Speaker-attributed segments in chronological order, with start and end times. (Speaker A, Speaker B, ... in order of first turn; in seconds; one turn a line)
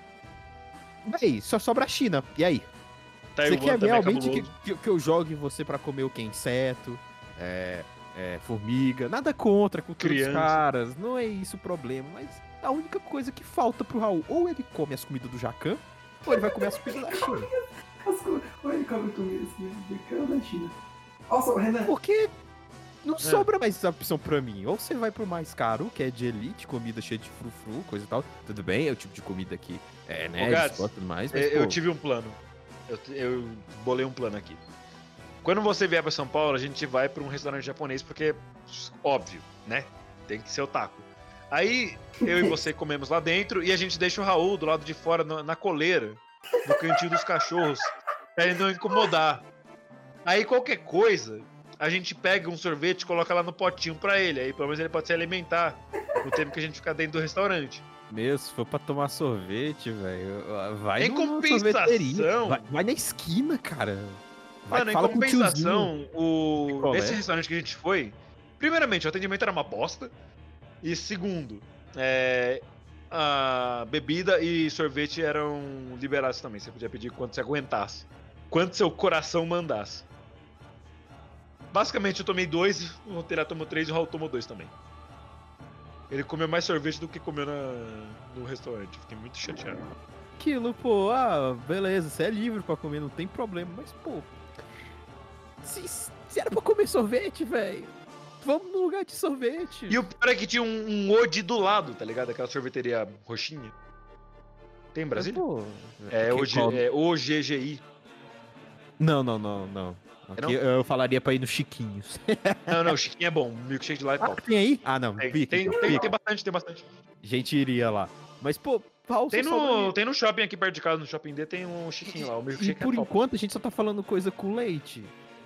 Speaker A: 1.1-2.7
Speaker B: 3.4-4.5
Speaker A: 3.4-17.5
Speaker B: 10.0-10.6
Speaker C: 16.3-20.7
Speaker C: 21.3-21.9
Speaker A: 21.9-22.3
Speaker A: 23.0-31.8
Speaker B: 23.2-23.5
Speaker B: 30.4-34.6
Speaker B: 35.4-49.5
Speaker C: 42.2-42.6
Speaker C: 46.6-47.8
Speaker B: 50.2-57.8
Speaker C: 56.2-56.4
Speaker A: 58.1-65.9
Speaker B: 61.0-62.6
Speaker B: 64.7-70.1
Speaker A: 66.6-67.2
Speaker B: 70.8-80.1
Speaker B: 81.7-84.7
Speaker B: 86.1-89.9
Speaker A: 90.4-94.3
Speaker A: 95.6-100.0
Speaker B: 99.9-103.7
Speaker B: 104.9-105.4
Speaker A: 105.2-106.8
Speaker B: 106.1-107.8
Speaker A: 109.0-113.0
Speaker B: 112.7-114.5
Speaker A: 114.2-116.1
Speaker B: 115.2-116.9
Speaker C: 115.7-116.1
Speaker A: 117.2-119.9
Speaker B: 119.3-123.1
Speaker A: 122.1-125.1